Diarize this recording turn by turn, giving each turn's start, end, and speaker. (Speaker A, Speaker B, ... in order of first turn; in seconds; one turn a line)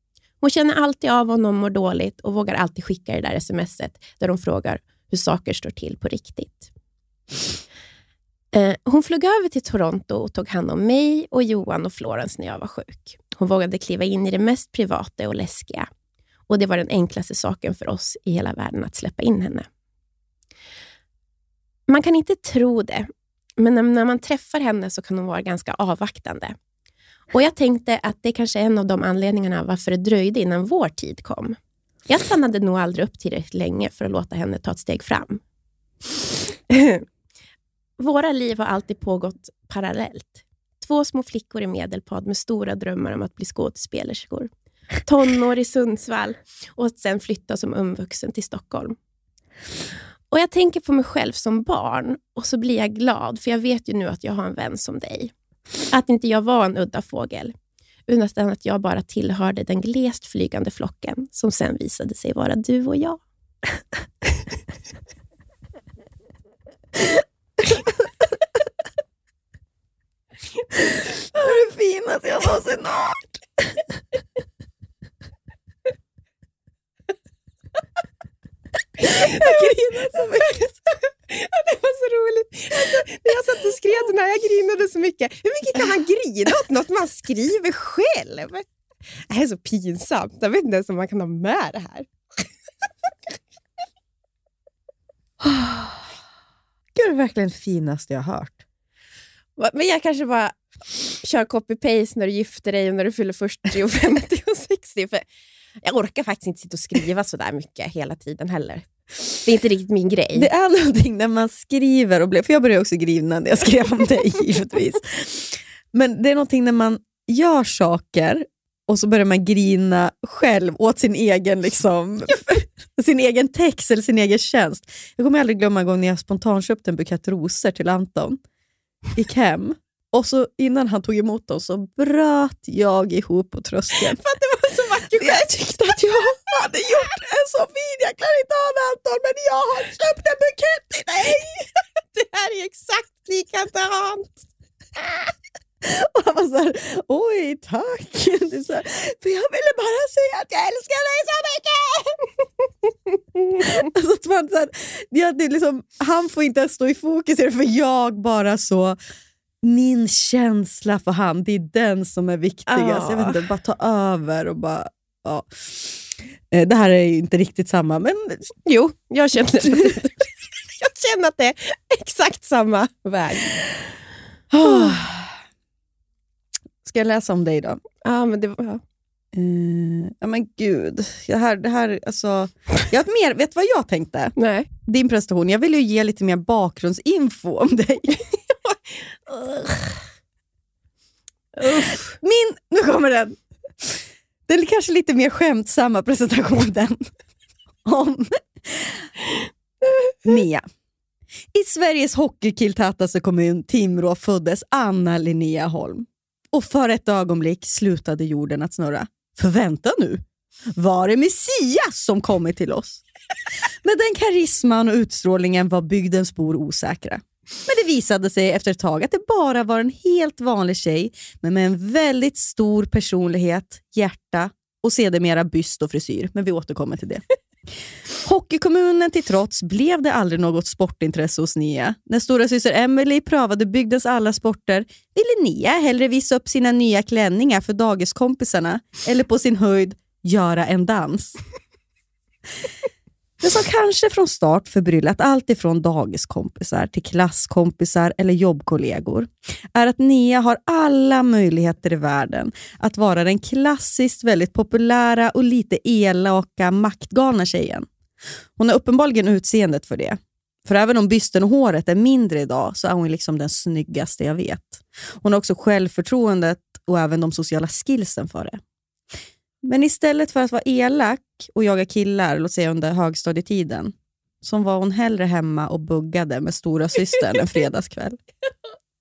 Speaker A: 0.4-6.7
Speaker A: 8.5-15.9
Speaker A: 16.5-19.7
Speaker A: 21.9-26.6
Speaker A: 27.3-31.6
Speaker A: 32.1-35.4
Speaker A: 36.7-37.0
Speaker A: 38.0-44.5
Speaker A: 45.0-49.0
Speaker A: 50.3-55.3
Speaker A: 55.9-57.5
Speaker A: 58.1-63.2
Speaker B: 71.4-73.2
Speaker A: 79.0-80.5
Speaker B: 79.1-80.7
Speaker A: 81.3-88.7
Speaker A: 89.3-92.1
Speaker B: 95.4-96.0
Speaker B: 97.0-98.6
Speaker A: 99.6-100.6
Speaker A: 101.2-105.3
Speaker A: 105.8-108.9
Speaker A: 109.4-110.5
Speaker B: 110.3-128.4
Speaker B: 129.2-134.2
Speaker A: 134.0-136.0
Speaker B: 135.1-141.7
Speaker A: 142.0-144.4
Speaker B: 145.8-152.0
Speaker B: 153.6-159.0
Speaker B: 159.6-166.0
Speaker A: 162.7-163.4
Speaker B: 166.5-168.4
Speaker A: 168.7-170.3
Speaker A: 170.8-173.6
Speaker B: 174.5-175.3
Speaker A: 174.7-174.9
Speaker B: 176.8-177.8
Speaker A: 178.0-178.8
Speaker B: 179.3-184.3
Speaker A: 184.4-184.7
Speaker B: 184.9-188.2
Speaker B: 189.3-189.6
Speaker A: 191.6-192.2
Speaker B: 191.7-197.0
Speaker B: 197.8-199.1
Speaker B: 200.2-200.6
Speaker B: 201.5-210.2
Speaker B: 210.8-213.0
Speaker B: 213.8-227.2
Speaker B: 228.2-241.4
Speaker B: 243.4-257.9
Speaker B: 258.6-268.6
Speaker B: 269.6-278.2